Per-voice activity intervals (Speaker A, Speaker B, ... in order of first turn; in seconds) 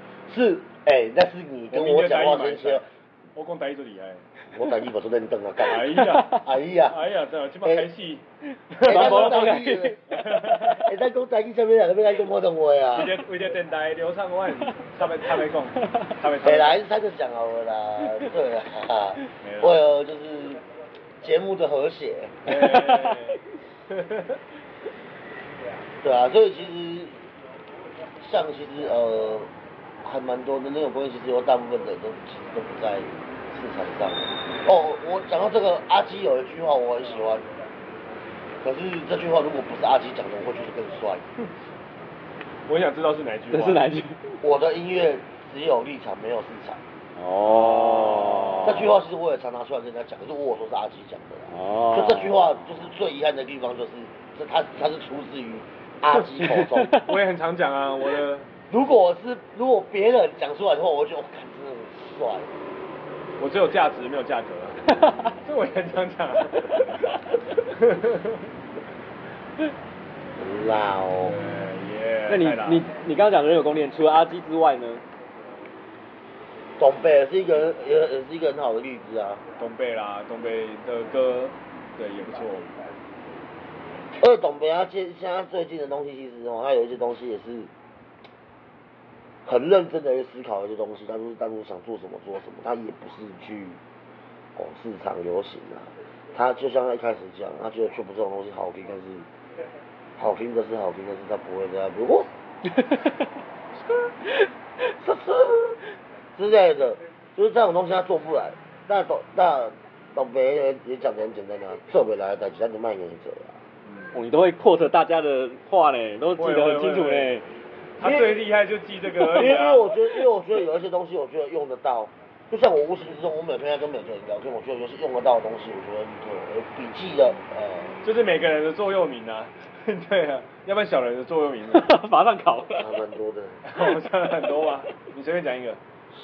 Speaker A: 0.3-2.8, 4.5-7.0, 7.6-7.9, 8.8-13.2, 16.4-20.6, 21.2-22.5, 26.0-27.2, 28.2-29.5, 30.0-37.5, 38.6-41.2, 44.4-46.8, 48.6-57.0, 58.7-62.5, 70.4-71.3, 76.8-79.4, 84.2-87.7, 89.4-93.8, 94.5-99.3, 100.2-102.3, 105.0-105.8, 106.3-113.6, 118.0-118.5, 119.2-128.0, 132.8-133.6
Speaker B: 1.7-2.8, 3.3-4.2, 5.6-10.9, 12.9-16.8, 19.4-19.8, 22.4-24.4, 42.7-43.8, 47.5-48.8, 56.9-58.5, 63.4-67.2, 67.7-68.4, 71.2-72.9, 79.6-82.7, 116.4-117.4, 118.0-119.9, 128.0-131.9, 133.7-135.8
Speaker C: 6.0-6.4, 8.8-9.9, 22.5-23.2, 43.5-44.3, 47.1-48.9, 51.5-52.4, 56.4-57.1, 64.9-65.3, 72.3-75.0, 114.1-117.4, 131.7-132.9